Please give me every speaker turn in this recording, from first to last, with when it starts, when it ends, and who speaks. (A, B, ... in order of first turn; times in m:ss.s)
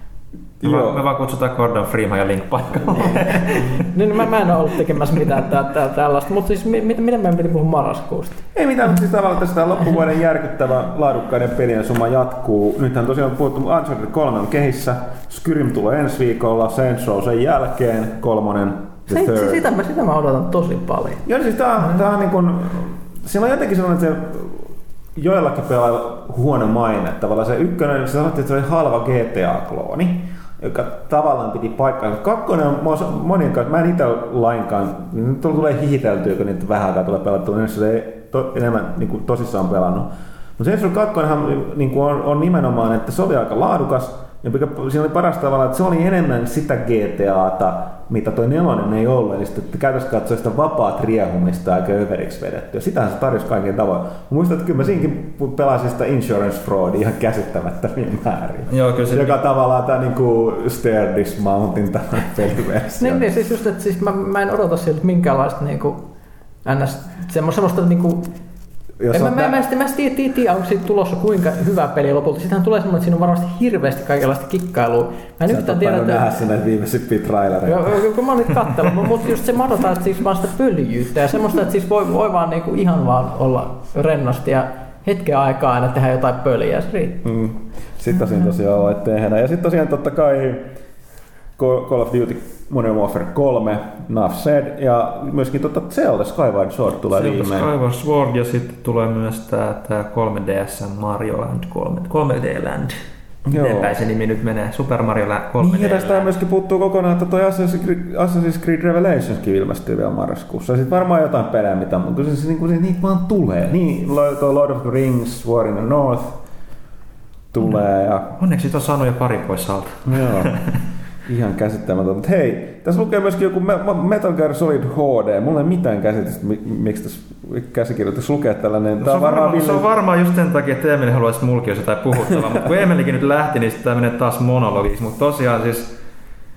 0:00.6-0:01.0 A
0:00.6-0:03.7 B
0:03.9-0:08.4 C
0:08.5-0:19.6 A
0:19.1-0:21.2 C
0:21.2-1:03.2 A
0:58.7-0:59.4 B
1:03.0-1:06.0 C
1:06.6-1:08.3 C
1:09.0-1:09.6 A
1:09.1-1:16.3 C
1:15.5-1:18.0 A
1:17.6-1:27.2 C
1:27.2-1:30.7 A
1:31.6-1:37.7 A
1:37.1-1:43.0 B
1:43.5-1:43.9 A
1:43.5-1:46.3 B
1:45.6-1:56.4 A
1:57.5-1:58.3 A
1:58.4-2:00.7 B
2:00.0-2:00.6 A
2:01.2-2:09.9 A
2:09.0-2:16.0 B